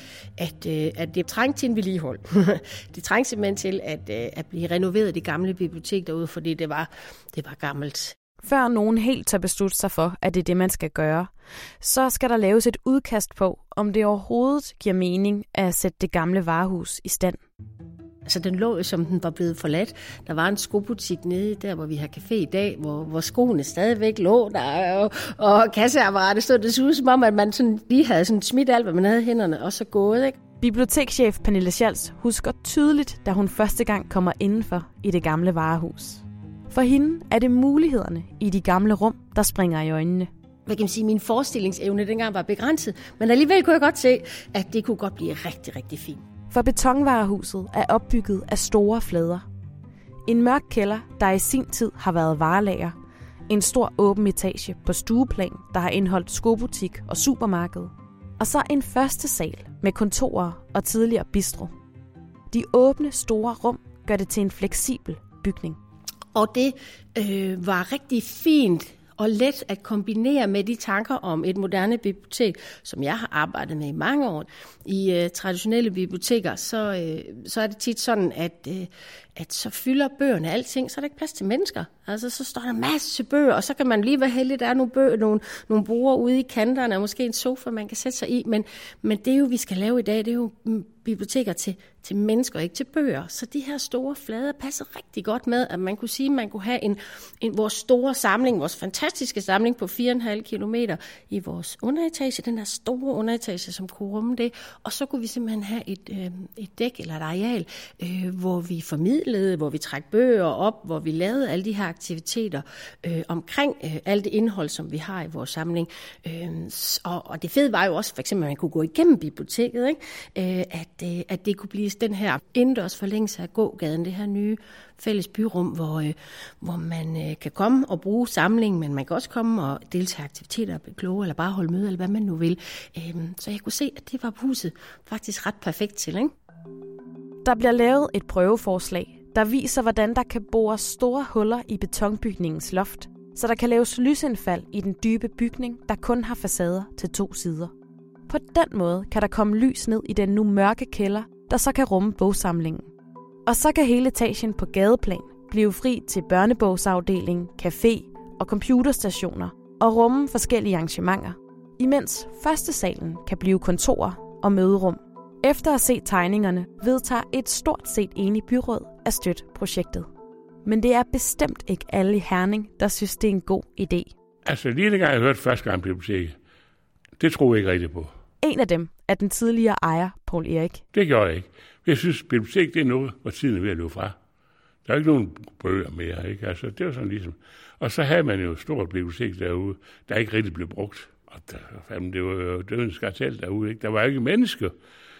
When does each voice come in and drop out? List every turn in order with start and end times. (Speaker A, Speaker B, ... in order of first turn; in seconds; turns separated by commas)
Speaker A: 0.4-8.2, Speaker B: 8.4-11.3, Speaker B: 11.8-17.4, Speaker A: 18.3-30.4, Speaker B: 30.6-40.3, Speaker A: 40.7-46.2, Speaker B: 46.5-49.4, Speaker B: 50.3-53.0, Speaker B: 53.5-61.7, Speaker B: 62.5-65.8, Speaker A: 66.3-136.3, Speaker B: 137.4-147.7, Speaker B: 148.3-152.9, Speaker B: 153.5-170.1, Speaker B: 170.7-174.1, Speaker C: 174.4-176.3, Speaker C: 177.2-178.1, Speaker B: 178.4-180.8, Speaker C: 180.9-184.2, Speaker C: 184.8-194.7